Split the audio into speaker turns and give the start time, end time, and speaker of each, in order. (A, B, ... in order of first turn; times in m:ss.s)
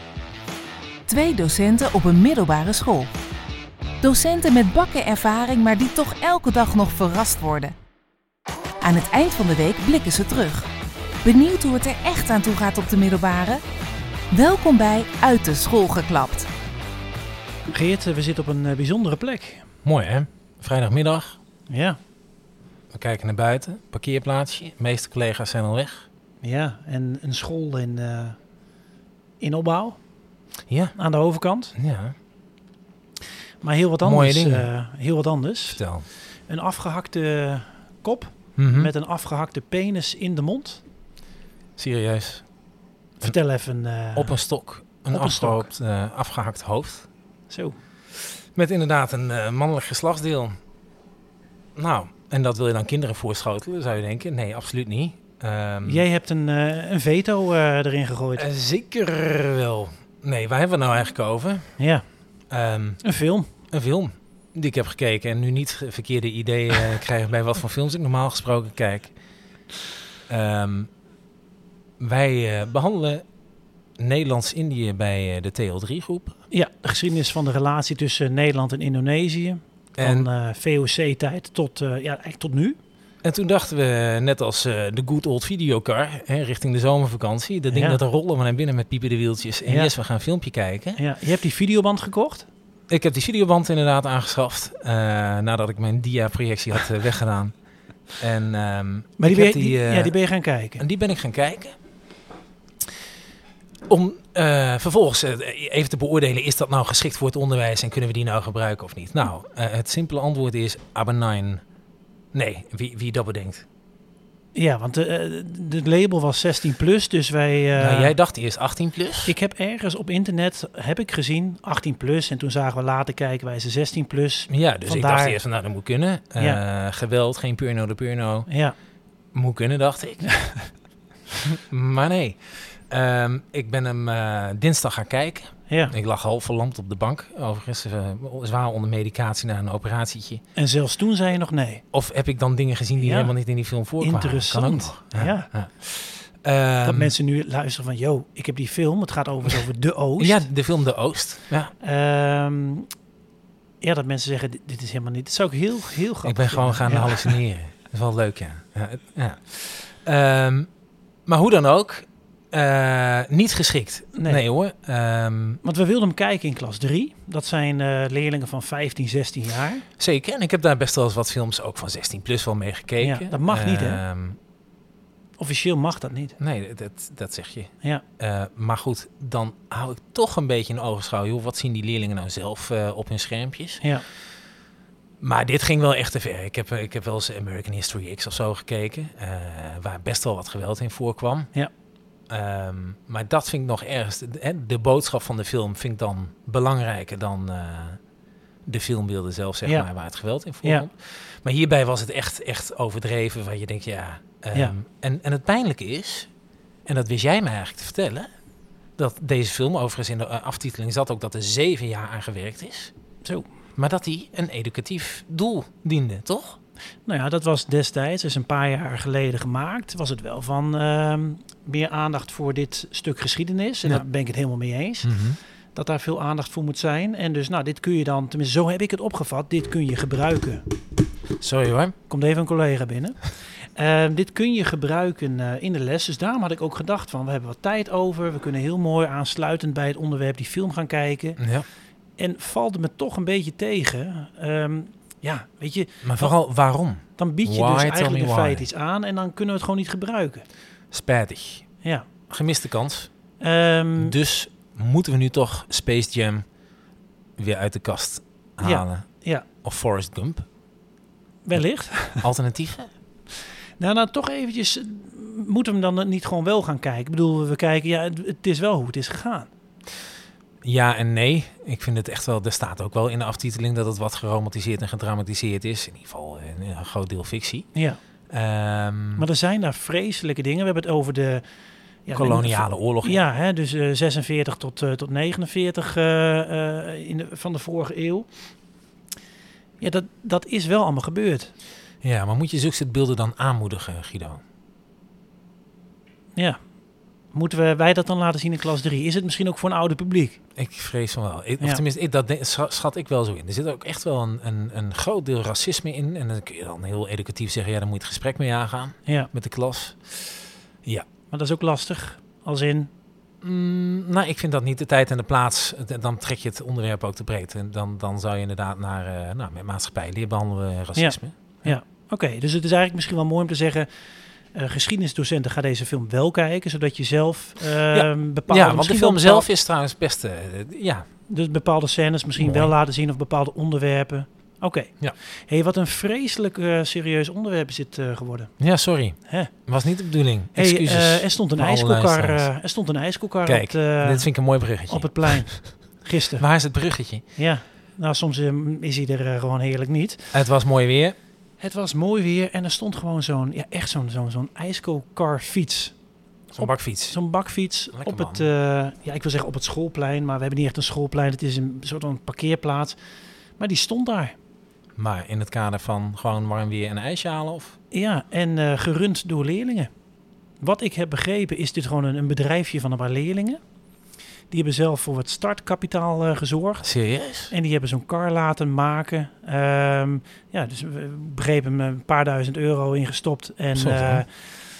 0:01.1-0:03.1 A
0:04.0-0:07.7 A
0:08.8-0:10.7 A
0:11.2-0:13.6 A
0:14.3-0:16.5 A
0:17.7-0:19.6 B
0:19.8-0:21.4 C
0:21.7-0:22.0 B
0:22.9-0:26.0 C
0:26.4-0:28.4 B
0:29.4-0:30.0 B
0:30.7-0:31.0 C
0:30.9-0:31.7 B
0:31.7-0:32.1 C
0:33.6-0:35.8 B
0:34.0-0:34.7 C
0:35.7-0:36.1 C
0:36.5-0:40.8 B
0:38.6-0:38.9 C
0:41.8-0:42.4 C
0:43.2-0:44.4 B
0:44.1-0:47.0 C
0:45.1-0:45.7 B
0:47.5-0:47.8 B
0:48.1-0:50.6 C
0:51.8-0:56.0 C
0:55.8-0:58.4 B
0:58.4-1:01.8 C
1:01.8-1:02.0 B
1:02.5-1:03.0 C
1:03.0-1:03.5 B
1:03.7-1:09.1 C
1:10.3-1:10.9 C
1:12.0-1:13.2 C
1:14.0-1:16.4 C
1:16.5-1:22.8 B
1:20.0-1:20.3 C
1:23.2-1:31.0 C
1:27.7-1:28.0 B
1:29.6-1:29.9 B
1:31.0-1:32.5 B
1:32.9-1:37.5 C
1:38.2-1:40.2 C
1:39.2-1:40.8 B
1:40.8-1:41.7 C
1:43.9-1:51.6 C
1:52.3-1:53.6 C
1:54.5-1:58.1 B
1:57.7-1:59.3 C
1:59.2-2:05.4 B
2:04.5-2:08.5 C
2:06.4-2:06.6 B
2:08.5-2:08.7 B
2:09.3-2:10.3 C
2:10.3-2:10.6 B
2:11.7-2:20.4 C
2:15.7-2:15.9 B
2:20.5-2:21.8 B
2:21.9-2:27.2 C
2:23.0-2:23.3 B
2:23.9-2:25.5 B
2:26.8-2:30.5 B
2:30.2-2:31.7 C
2:31.8-2:32.9 B
2:33.8-2:37.4 B
2:36.2-2:40.7 C
2:41.3-2:45.6 C
2:44.1-2:44.4 B
2:45.6-2:49.8 B
2:50.0-2:54.4 C
2:53.0-2:54.0 B
2:55.4-2:56.4 B
2:56.4-3:03.8 C
3:05.2-3:11.5 C
3:12.3-3:18.0 C
3:18.7-3:26.3 C
3:19.6-3:19.9 B
3:26.8-3:28.3 C
3:29.0-3:32.9 C
3:33.8-3:36.6 C
3:37.0-3:45.2 B
3:45.0-3:45.4 C
3:45.7-3:50.6 B
3:51.4-3:51.9 C
3:52.1-4:01.4 B
4:01.4-4:01.7 C
4:02.2-4:06.3 B
4:06.0-4:08.7 C
4:07.2-4:10.4 B
4:10.9-4:11.7 C
4:11.8-4:12.1 B
4:12.3-4:13.1 C
4:13.4-4:14.2 B
4:14.0-4:16.4 C
4:17.4-4:19.0 C
4:18.6-4:19.4 B
4:19.6-4:20.4 C
4:21.4-4:22.3 B
4:22.2-4:22.9 C
4:23.8-4:29.5 B
4:30.6-4:37.7 C
4:37.7-4:38.0 B
4:38.3-4:39.2 C
4:39.2-4:41.4 B
4:42.0-4:48.3 B
4:42.1-4:43.2 C
4:49.8-4:51.5 B
4:52.0-4:54.4 C
4:57.3-5:00.4 B
5:00.6-5:11.1 C
5:11.3-5:12.9 B
5:13.4-5:21.7 C
5:21.0-5:23.9 B
5:24.5-5:29.5 B
5:27.9-5:31.0 C
5:31.3-5:38.5 B
5:32.4-5:32.7 C
5:38.6-5:42.5 C
5:39.2-5:39.5 B
5:40.5-5:46.4 B
5:43.4-5:45.6 C
5:46.4-5:47.2 C
5:47.4-5:50.4 B
5:50.3-5:51.2 C
5:51.6-5:55.9 B
5:56.5-5:57.2 C
5:56.6-6:03.0 B
5:57.9-5:58.5 C
6:03.6-6:04.3 B
6:05.0-6:07.7 C
6:07.9-6:09.9 B
6:10.6-6:13.6 B
6:14.5-6:16.9 B
6:16.8-6:17.5 C
6:17.5-6:24.5 B
6:23.7-6:24.2 C